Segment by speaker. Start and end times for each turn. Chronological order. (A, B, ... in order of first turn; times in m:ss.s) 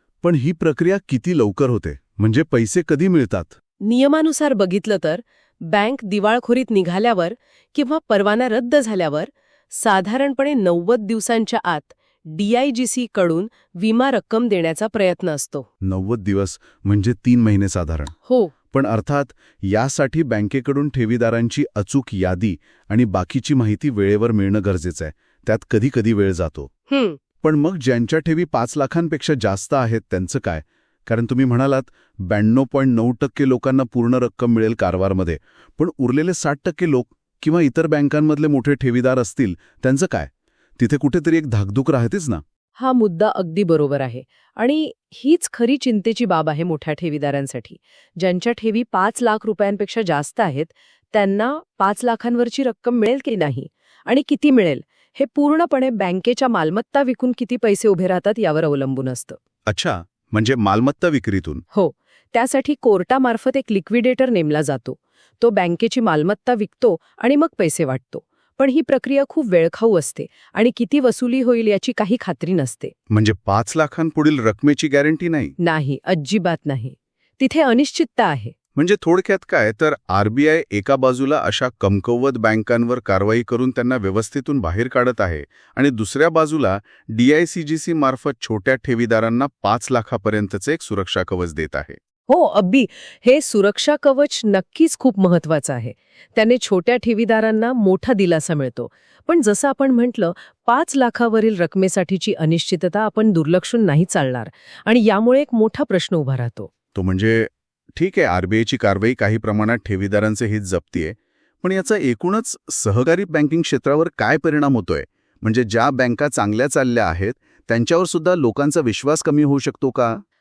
0:00.2-0:03.5 A
0:03.8-0:15.7 B
0:15.8-0:18.1 A
0:18.2-0:18.5 B
0:18.7-0:26.7 A
0:26.9-0:27.2 B
0:27.4-0:42.4 A
0:42.8-0:59.4 B
0:59.7-1:01.6 A
1:01.7-1:12.9 B
1:13.1-1:15.5 A
1:15.6-1:18.5 B
1:18.7-1:32.0 A
1:32.3-1:46.7 B
1:46.9-2:00.2 A